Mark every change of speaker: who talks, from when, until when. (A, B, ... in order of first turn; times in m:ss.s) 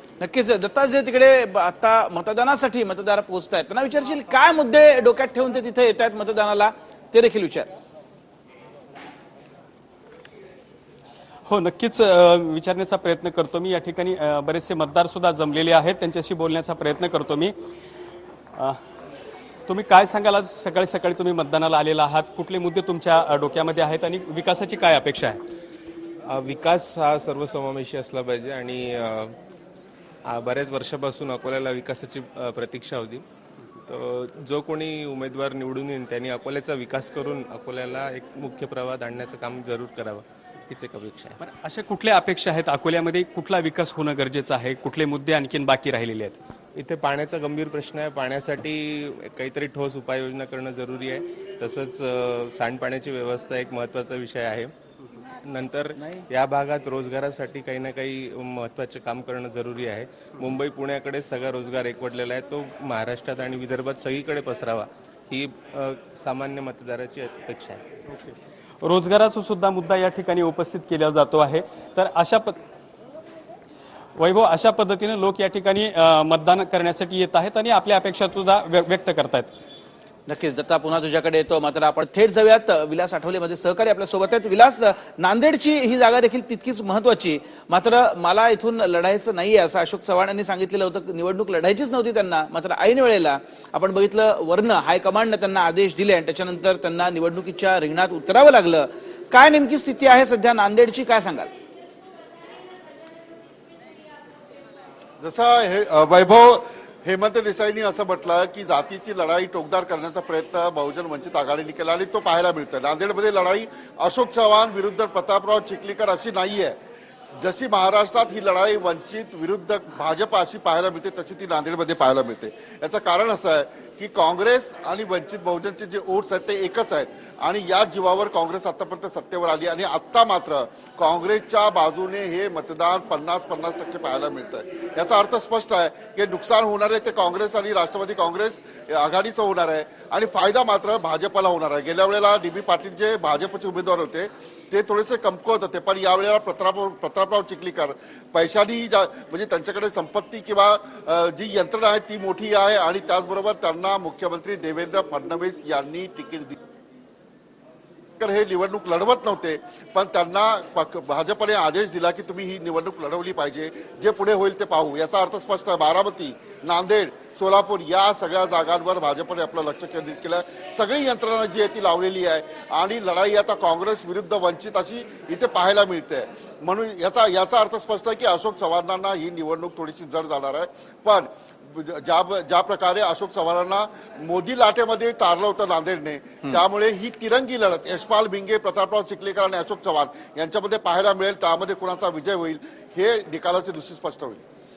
0:00.2-0:07.7 A
0:11.5-0:17.5 B
0:19.7-0:25.4 B
0:26.3-0:29.4 C
0:30.3-0:33.2 C
0:33.9-0:41.4 C
0:41.4-0:46.4 B
0:46.8-0:54.7 C
0:55.4-1:07.8 C
1:08.8-1:12.6 B
1:14.2-1:19.5 B
1:20.3-1:41.5 A
1:45.2-1:56.8 D
1:57.4-2:36.6 D
2:38.2-3:14.4 D